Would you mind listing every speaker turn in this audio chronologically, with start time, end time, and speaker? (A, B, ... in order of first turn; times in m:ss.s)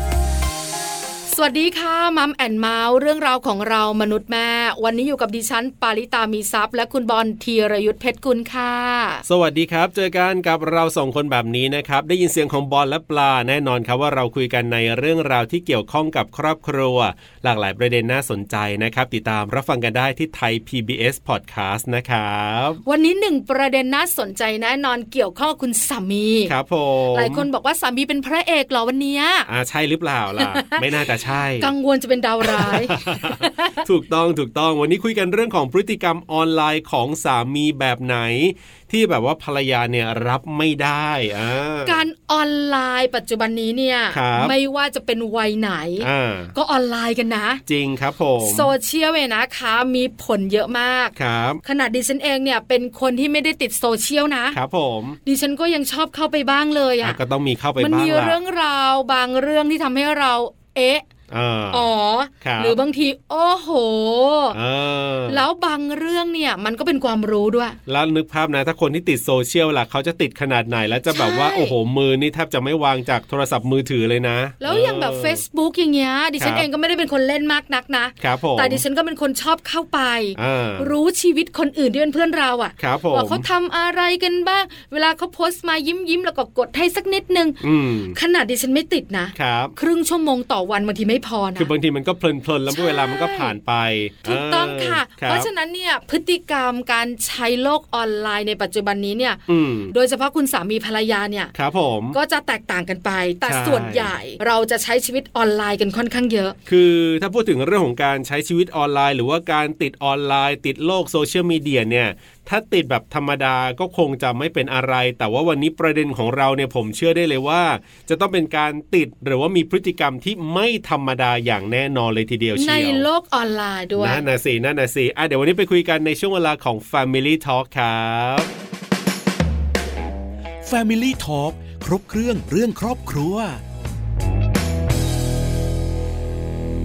0:01.3-0:09.2 A
0:09.2-0:22.8 B
0:22.8-0:26.5 A
0:26.5-0:27.5 B
0:27.1-0:29.5 A
0:29.5-0:31.7 B
0:30.4-0:33.8 A
0:32.4-0:42.0 B
0:41.8-0:47.6 A
0:44.1-0:44.5 B
0:46.0-0:46.5 B
0:47.6-0:48.7 B
0:48.4-0:54.6 A
0:51.2-0:51.6 B
0:54.5-0:55.2 B
0:55.2-0:57.2 A
0:57.0-0:58.4 B
0:57.8-1:01.1 A
1:01.3-1:01.9 B
1:01.7-1:04.6 A
1:02.4-1:02.8 B
1:04.5-1:05.4 B
1:05.3-1:07.8 A
1:07.8-1:15.4 B
1:11.1-1:11.8 A
1:14.6-1:27.6 A
1:16.4-1:16.6 B
1:18.2-1:18.8 B
1:20.3-1:20.9 B
1:22.8-1:23.4 B
1:27.6-1:28.2 B
1:28.1-1:31.7 A
1:29.3-1:29.7 B
1:31.6-1:35.5 B
1:32.7-1:33.5 A
1:34.2-1:41.5 A
1:39.5-1:39.9 B
1:41.5-1:42.2 B
1:42.1-1:46.6 A
1:43.4-1:44.2 B
1:46.6-2:03.1 B
2:02.5-2:04.2 A
2:04.0-2:08.5 B
2:10.6-2:13.6 C